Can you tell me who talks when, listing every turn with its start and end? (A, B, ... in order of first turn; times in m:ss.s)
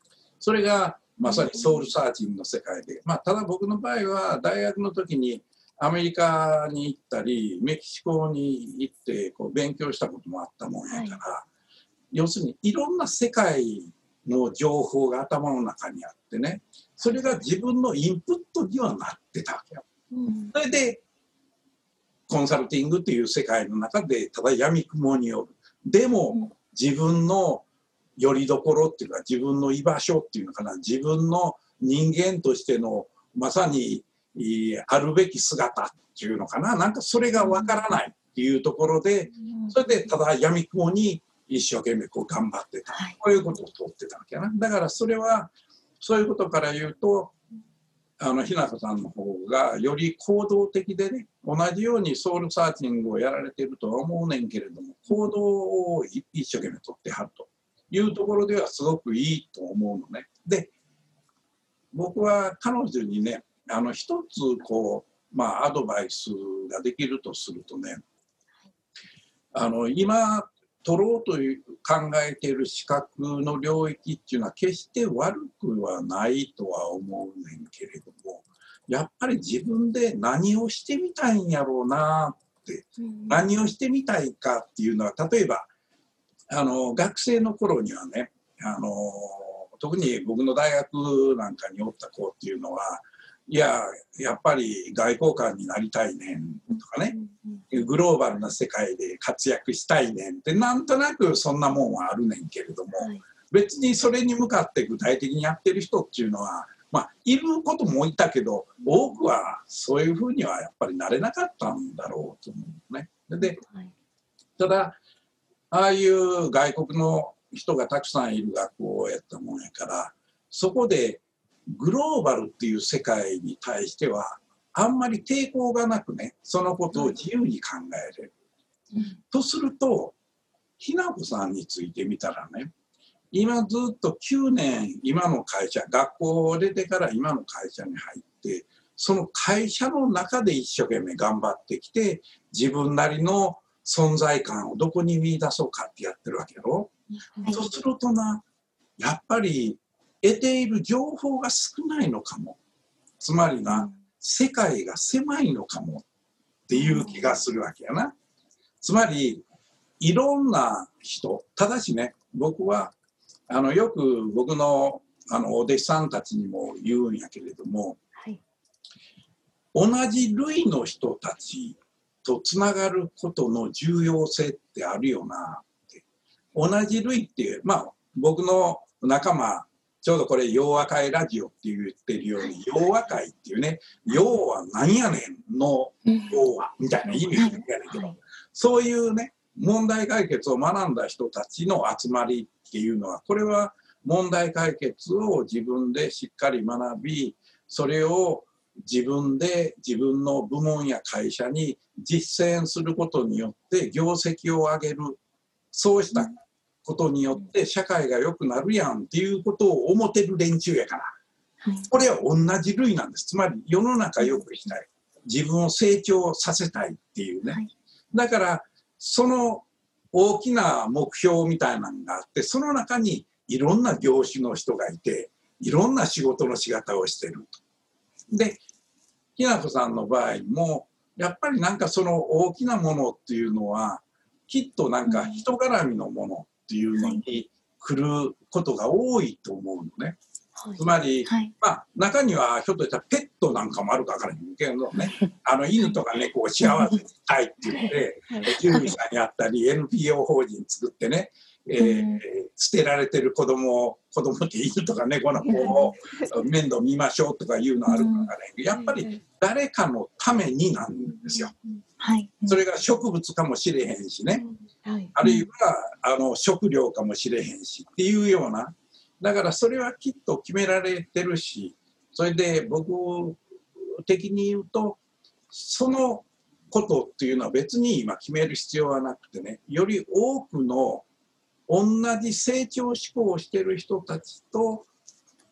0:00.4-0:11.4 A
0:01.2-0:01.9 B
0:10.9-0:11.2 B
0:12.1-0:19.8 A
0:20.1-0:20.5 B
0:20.5-0:21.0 A
0:22.3-0:27.6 A
0:28.2-0:47.3 A
0:48.2-1:00.7 A
1:01.9-1:08.0 A
1:09.5-1:25.7 A
1:23.0-1:23.5 B
1:26.5-1:37.2 A
1:37.1-1:37.7 B
1:37.7-1:53.6 A
1:48.8-1:49.1 B
1:53.4-1:53.9 B
1:54.6-1:55.0 A
1:55.7-2:08.3 A
2:09.3-2:10.2 A
2:10.8-2:12.7 A
2:13.3-2:26.9 A
2:27.4-2:27.6 B
2:27.5-2:28.4 A
2:29.0-2:32.6 A
2:33.2-2:36.0 A
2:36.7-2:38.1 A
2:38.8-2:39.4 A
2:40.0-2:42.9 A
2:43.5-2:48.0 A
2:49.7-2:56.0 A
2:56.5-3:25.2 A
3:06.0-3:06.4 C
3:07.2-3:08.2 B
3:25.7-3:26.3 A
3:26.8-3:31.2 A
3:31.6-3:31.9 C
3:31.9-3:37.6 A
3:38.1-3:47.6 A
3:48.3-3:48.6 A
3:49.4-4:00.2 A
3:55.0-3:55.4 C
4:00.6-4:00.8 B
4:00.8-4:21.5 A
4:01.2-4:01.5 C
4:08.3-4:08.6 B
4:11.8-4:12.2 C
4:15.5-4:16.3 B
4:17.9-4:18.3 C
4:18.7-4:19.2 B
4:21.0-4:21.8 B
4:22.0-4:22.6 C
4:22.5-4:24.4 A
4:24.3-4:25.1 B
4:25.2-4:35.0 A
4:25.2-4:25.5 C
4:35.5-4:41.0 A
4:41.7-4:44.8 A